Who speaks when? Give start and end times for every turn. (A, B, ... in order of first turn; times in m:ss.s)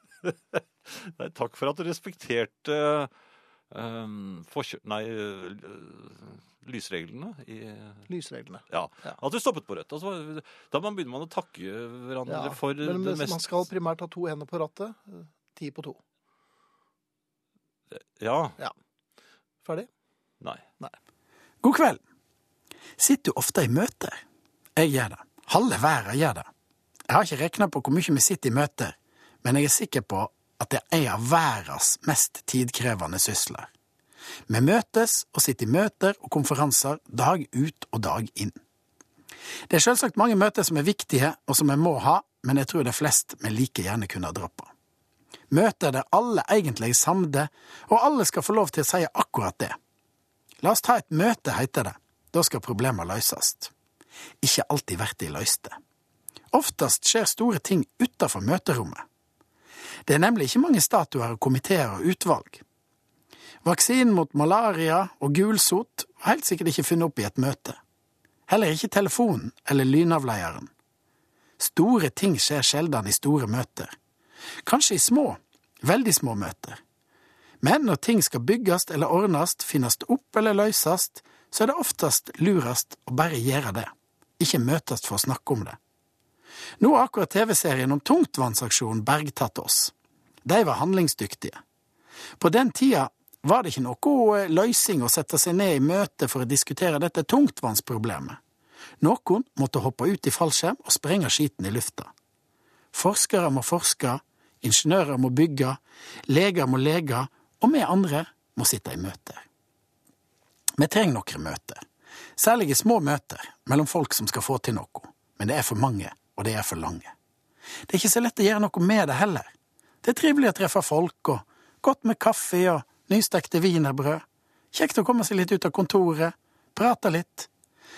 0:00.2-0:03.1 A
0:03.7-0:08.1 A
0:08.1-0:09.2 B
0:08.7-0:13.4 A
0:12.3-0:16.0 B
0:17.9-0:18.6 A
0:19.6-0:19.9 B
0:21.6-0:22.0 C
0:23.0-0:24.2 C
0:24.8-0:26.5 C
0:27.1-0:33.7 C
0:34.5-0:38.6 C
0:39.7-0:44.7 C
0:45.5-0:49.8 C
0:50.6-0:53.7 C
0:54.4-0:55.8 C
0:56.5-0:59.0 C
1:00.0-1:02.6 C
1:03.6-1:07.8 C
1:08.5-1:10.7 C
1:11.6-1:13.9 C
1:14.6-1:16.8 C
1:17.6-1:25.8 C
1:26.8-1:29.9 C
1:30.4-1:31.6 C
1:32.4-1:38.4 C
1:39.0-1:42.1 C
1:42.9-1:49.4 C
1:50.8-1:51.8 C
1:52.4-1:57.1 C
1:57.9-1:59.5 C
2:00.0-2:07.5 C